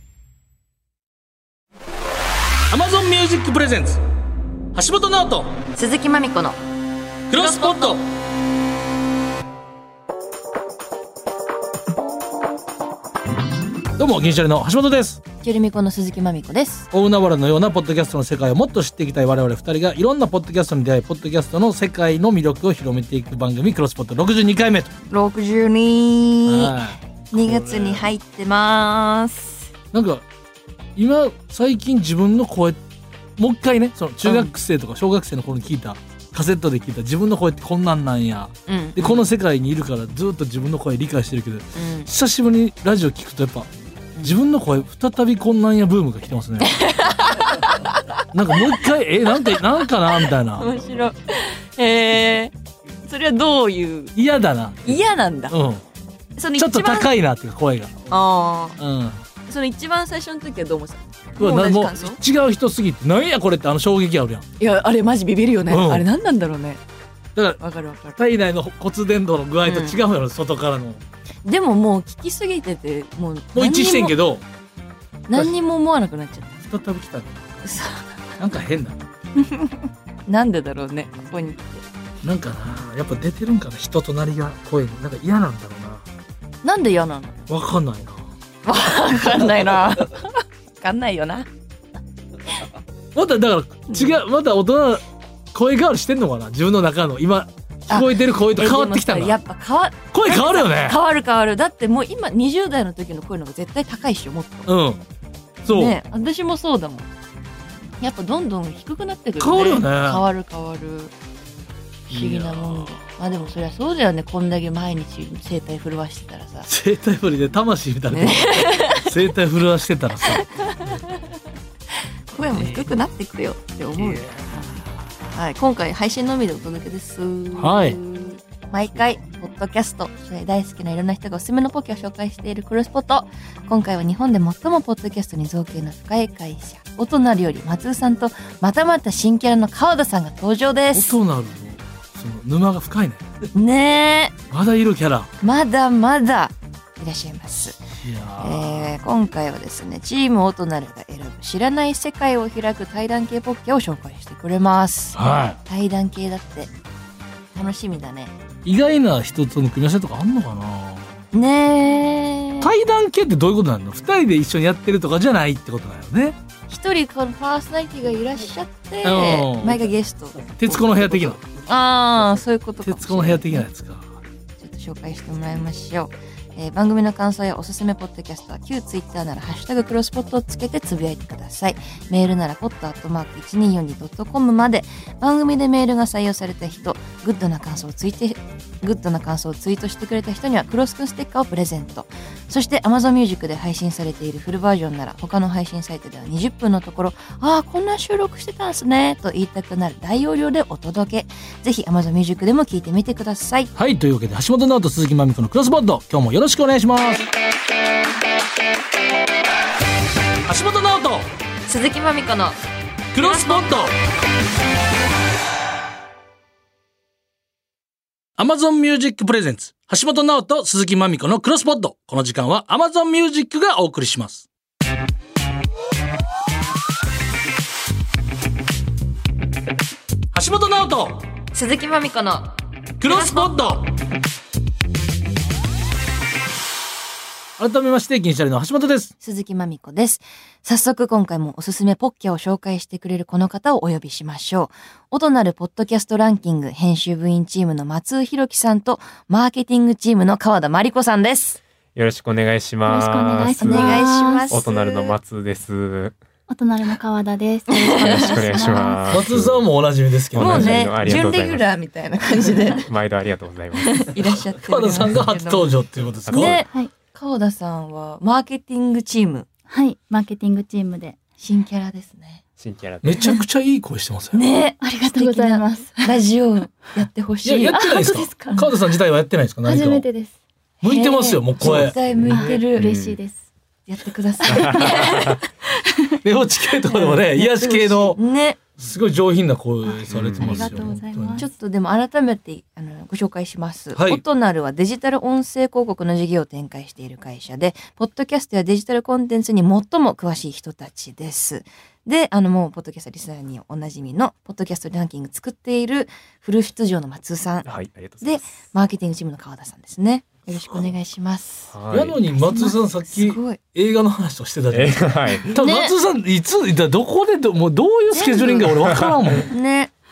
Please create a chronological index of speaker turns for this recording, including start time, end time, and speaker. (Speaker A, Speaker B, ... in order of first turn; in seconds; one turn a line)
Speaker A: 2.7-4.0
Speaker A: 4.7-5.6
Speaker B: 5.7-6.6
Speaker B: 7.3-8.0
Speaker A: 7.3-8.0
Speaker A: 14.0-15.2
Speaker B: 15.4-16.9
Speaker A: 16.9-24.9
Speaker B: 25.1-26.8
Speaker A: 26.5-28.1
Speaker B: 27.3-29.7
Speaker A: 29.9-30.2
Speaker A: 31.0-32.8
Speaker A: 33.4-46.8
Speaker B: 34.2-34.5
Speaker B: 38.7-39.2
Speaker B: 41.8-42.1
Speaker B: 46.7-47.8
Speaker A: 48.3-50.7
Speaker B: 49.3-52.5
Speaker B: 53.0-54.2
Speaker A: 54.2-55.8
Speaker B: 54.9-55.6
Speaker B: 56.4-57.1
Speaker A: 56.6-58.0
Speaker B: 58.1-58.8
Speaker A: 58.8-59.2
Speaker B: 59.5-62.2
Speaker A: 61.4-64.5
Speaker B: 64.6-66.8
Speaker A: 65.7-66.1
Speaker B: 67.6-68.2
Speaker A: 68.2-71.0
Speaker B: 69.6-70.0
Speaker B: 71.5-74.2
Speaker A: 73.5-74.4
Speaker B: 75.3-76.7
Speaker A: 76.6-77.5
Speaker B: 77.6-78.2
Speaker A: 78.4-79.0
Speaker B: 79.4-81.8
Speaker A: 82.2-86.1
Speaker B: 86.6-87.4
Speaker A: 87.5-88.3
Speaker B: 88.7-91.5
Speaker A: 93.2-99.4
Speaker B: 93.9-94.2
Speaker B: 97.9-104.7
Speaker A: 100.1-101.0
Speaker A: 104.7-105.0
Speaker A: 105.7-106.0
Speaker B: 105.7-107.1
Speaker B: 108.0-111.1
Speaker A: 109.4-110.3
Speaker B: 112.1-116.7
Speaker A: 112.1-113.0
Speaker A: 116.7-120.4
Speaker B: 118.1-119.2
Speaker B: 120.5-121.0
Speaker B: 122.3-124.3
Speaker A: 122.5-122.9
Speaker A: 124.0-124.9
Speaker B: 125.3-141.2
Speaker A: 127.5-128.0
Speaker A: 140.9-143.3
Speaker B: 143.5-144.3
Speaker A: 144.5-145.3
Speaker B: 145.4-147.8
Speaker A: 148.0-149.0
Speaker B: 148.4-156.7
Speaker A: 155.1-155.6
Speaker B: 157.5-158.3
Speaker A: 158.7-161.2
Speaker B: 161.3-162.7
Speaker A: 162.6-166.4
Speaker B: 166.7-173.7
Speaker A: 169.0-169.8
Speaker A: 170.6-171.4
Speaker A: 172.8-174.2
Speaker B: 174.6-203.7
Speaker A: 203.8-207.3
Speaker A: 210.5-211.3
Speaker B: 211.7-212.6
Speaker B: 213.1-213.9
Speaker A: 213.1-213.9
Speaker A: 218.4-224.5
Speaker A: 230.3-231.3
Speaker B: 231.5-233.6
Speaker A: 233.0-233.9
Speaker A: 237.6-239.1
Speaker B: 239.2-251.6
Speaker C: 251.9-256.2
Speaker D: 252.9-254.6
Speaker B: 253.6-255.2
Speaker D: 256.5-259.2
Speaker B: 257.7-258.8
Speaker C: 258.1-259.7
Speaker A: 259.1-261.4
Speaker C: 260.3-261.7
Speaker B: 260.3-262.9
Speaker C: 262.7-264.1
Speaker B: 263.8-265.7
Speaker A: 264.6-266.7
Speaker C: 266.3-266.6
Speaker B: 266.3-269.5
Speaker D: 266.7-266.9
Speaker D: 269.7-271.2
Speaker B: 271.4-272.4
Speaker C: 272.6-273.3
Speaker A: 273.0-274.4
Speaker B: 274.3-277.8
Speaker D: 274.8-276.1
Speaker A: 277.4-280.1
Speaker D: 277.8-278.8
Speaker D: 279.6-280.4
Speaker B: 280.8-282.9
Speaker A: 280.8-282.0
Speaker C: 282.0-283.2
Speaker D: 282.3-283.5
Speaker B: 283.9-285.3
Speaker C: 284.5-285.4
Speaker D: 284.5-284.9
Speaker A: 286.2-288.2
Speaker B: 286.9-288.6
Speaker A: 288.7-291.5
Speaker D: 289.8-291.5
Speaker C: 290.1-290.7
Speaker B: 291.4-307.7
Speaker A: 293.9-294.2
Speaker C: 307.6-308.6
Speaker B: 308.2-311.8
Speaker A: 310.5-310.9
Speaker C: 311.7-312.2
Speaker A: 311.9-319.5
Speaker B: 312.3-313.6
Speaker C: 314.7-315.6
Speaker B: 315.5-315.9
Speaker B: 318.1-318.7
Speaker C: 318.8-319.2
Speaker B: 319.5-319.9